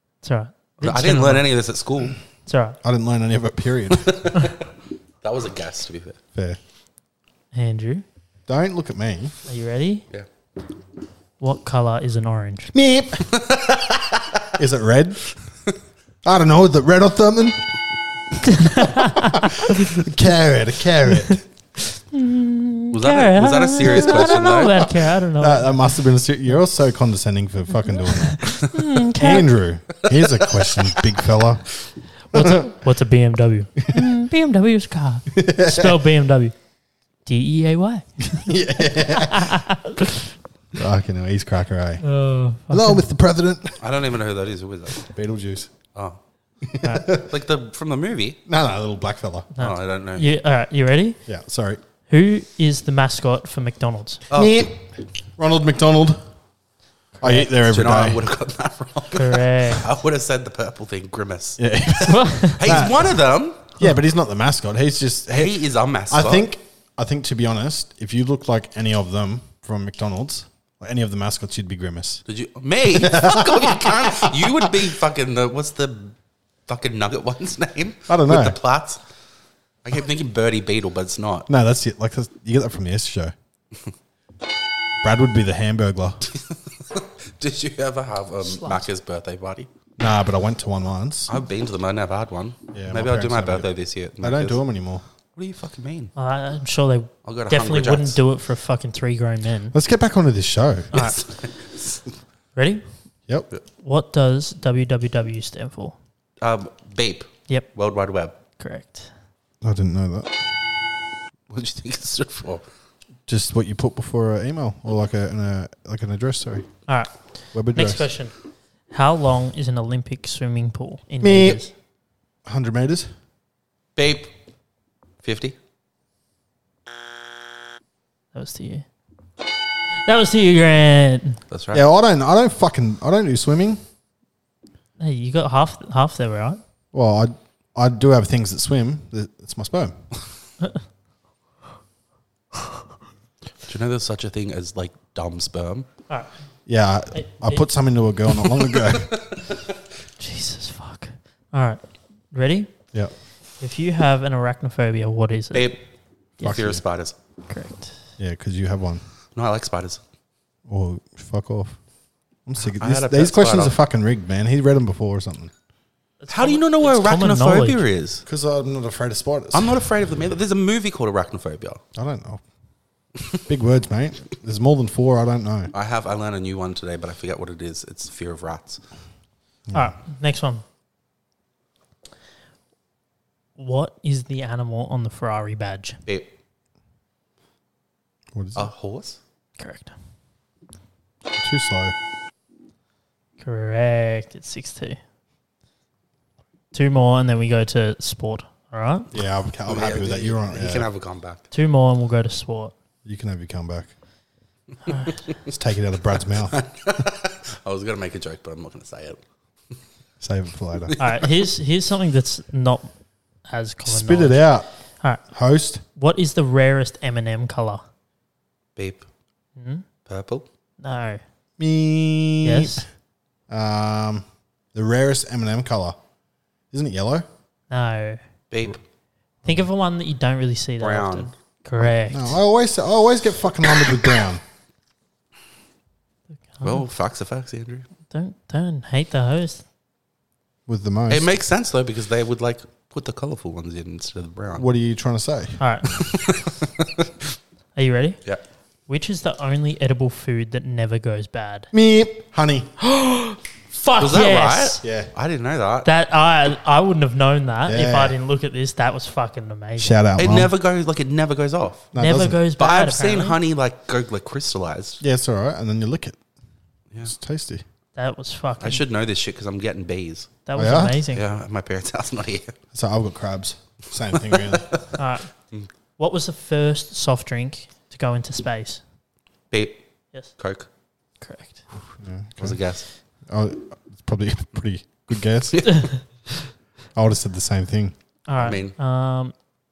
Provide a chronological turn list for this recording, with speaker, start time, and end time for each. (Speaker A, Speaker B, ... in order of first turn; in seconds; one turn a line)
Speaker A: 0.2-1.5
Speaker B: 0.8-2.2
Speaker A: 2.5-2.8
Speaker C: 2.8-4.2
Speaker B: 3.9-4.6
Speaker B: 5.2-6.2
Speaker A: 7.5-8.0
Speaker C: 8.5-9.3
Speaker A: 9.4-10.0
Speaker A: 11.4-12.7
Speaker C: 12.7-13.3
Speaker B: 13.3-14.4
Speaker C: 14.6-15.2
Speaker C: 16.2-17.6
Speaker A: 18.4-19.7
Speaker C: 19.1-21.4
Speaker A: 22.0-25.8
Speaker B: 22.9-24.9
Speaker C: 25.4-31.7
Speaker A: 28.1-29.5
Speaker B: 30.0-31.0
Speaker A: 32.3-36.5
Speaker C: 32.3-32.7
Speaker C: 35.3-36.0
Speaker A: 37.2-40.2
Speaker C: 38.3-39.6
Speaker C: 40.7-42.0
Speaker A: 42.0-43.0
Speaker C: 42.7-43.8
Speaker B: 43.8-45.1
Speaker C: 45.0-45.7
Speaker C: 46.6-47.3
Speaker A: 46.8-47.1
Speaker B: 47.2-48.4
Speaker C: 48.5-49.5
Speaker A: 49.5-51.2
Speaker B: 49.6-50.2
Speaker C: 51.2-51.8
Speaker A: 52.1-54.2
Speaker B: 54.3-54.7
Speaker C: 54.3-56.2
Speaker A: 57.2-57.5
Speaker C: 57.2-58.2
Speaker B: 57.5-63.7
Speaker A: 59.1-59.9
Speaker C: 61.6-63.2
Speaker A: 62.1-62.6
Speaker C: 63.8-72.2
Speaker B: 65.3-66.5
Speaker B: 72.3-76.1
Speaker C: 72.9-74.9
Speaker B: 76.7-79.0
Speaker C: 78.1-78.6
Speaker B: 79.8-81.5
Speaker C: 81.5-83.3
Speaker C: 85.0-86.2
Speaker B: 86.3-89.7
Speaker A: 88.4-88.9
Speaker C: 90.0-91.3
Speaker B: 91.3-94.6
Speaker C: 92.7-93.7
Speaker C: 94.2-95.0
Speaker B: 95.3-96.1
Speaker A: 96.2-99.7
Speaker B: 97.2-98.2
Speaker C: 99.7-100.9
Speaker A: 100.9-101.2
Speaker B: 100.9-102.0
Speaker A: 102.5-102.8
Speaker A: 103.8-106.0
Speaker B: 106.4-108.3
Speaker A: 108.6-109.1
Speaker C: 109.6-110.4
Speaker B: 111.5-112.6
Speaker C: 113.3-116.7
Speaker A: 116.9-118.3
Speaker C: 117.5-118.1
Speaker A: 118.9-121.7
Speaker C: 121.2-121.6
Speaker C: 122.4-123.1
Speaker B: 124.0-124.3
Speaker B: 125.2-125.5
Speaker A: 128.3-128.8
Speaker A: 130.0-131.4
Speaker B: 131.5-131.8
Speaker C: 131.7-133.8
Speaker A: 135.0-136.6
Speaker C: 136.9-139.9
Speaker B: 143.7-145.9
Speaker C: 146.7-149.1
Speaker A: 147.1-147.7
Speaker B: 148.7-149.5
Speaker A: 150.2-152.7
Speaker A: 153.6-155.8
Speaker B: 155.5-155.8
Speaker C: 156.4-156.8
Speaker B: 156.4-157.2
Speaker A: 157.5-158.0
Speaker C: 158.2-159.0
Speaker B: 159.3-160.0
Speaker C: 160.7-161.8
Speaker C: 162.4-165.5
Speaker B: 162.7-163.8
Speaker A: 166.2-167.8
Speaker B: 166.3-168.2
Speaker C: 168.2-169.8
Speaker B: 169.5-171.8
Speaker C: 171.9-172.4
Speaker C: 173.4-175.7
Speaker B: 175.7-178.8
Speaker C: 179.7-179.9
Speaker A: 179.7-180.6
Speaker A: 183.6-186.0
Speaker B: 186.1-186.3
Speaker C: 188.3-188.7
Speaker B: 188.6-189.2
Speaker A: 189.6-189.9
Speaker C: 191.3-191.9
Speaker A: 193.4-195.0
Speaker A: 196.7-199.1
Speaker C: 199.1-200.9
Speaker B: 199.7-201.4
Speaker A: 201.5-202.7
Speaker C: 203.0-203.9
Speaker A: 204.8-205.2
Speaker C: 205.5-206.5
Speaker B: 206.5-209.2
Speaker C: 210.2-210.9
Speaker B: 210.9-211.2
Speaker A: 211.0-212.9
Speaker A: 213.5-214.4
Speaker C: 213.8-214.7
Speaker C: 215.2-215.8
Speaker A: 215.9-217.8
Speaker B: 218.8-219.1
Speaker A: 219.6-219.8
Speaker B: 220.1-220.4
Speaker A: 220.8-221.2
Speaker C: 221.6-222.8
Speaker A: 222.4-222.8
Speaker C: 223.5-226.0
Speaker C: 226.7-227.2
Speaker A: 227.7-228.2
Speaker B: 228.5-228.8
Speaker A: 229.4-232.3
Speaker B: 230.8-231.3
Speaker C: 231.8-234.4
Speaker A: 236.5-236.8
Speaker B: 236.6-237.9
Speaker A: 238.1-239.6
Speaker C: 240.7-241.3
Speaker B: 241.1-244.7
Speaker C: 244.6-245.6
Speaker A: 245.6-245.9
Speaker B: 245.9-247.0
Speaker A: 247.7-248.2
Speaker A: 248.9-251.7
Speaker C: 251.7-252.7
Speaker A: 252.8-254.8
Speaker B: 254.0-255.9
Speaker C: 254.8-255.1
Speaker A: 255.8-260.0
Speaker C: 257.6-258.1
Speaker C: 259.8-260.5
Speaker B: 260.2-261.9
Speaker C: 261.9-262.4
Speaker A: 262.0-263.4
Speaker B: 262.6-265.0
Speaker C: 265.0-266.2
Speaker C: 267.0-267.6
Speaker A: 267.9-268.8
Speaker B: 268.6-270.3
Speaker A: 270.4-271.2
Speaker C: 270.6-271.0
Speaker B: 271.1-272.5
Speaker C: 272.7-274.7
Speaker B: 274.3-274.9
Speaker A: 274.9-275.3
Speaker A: 276.0-278.8
Speaker B: 279.5-280.7
Speaker A: 281.2-281.6
Speaker C: 282.0-282.6
Speaker B: 282.4-282.9
Speaker C: 283.3-286.0
Speaker A: 285.6-286.0
Speaker C: 286.9-287.9
Speaker A: 288.3-289.3
Speaker B: 288.4-288.7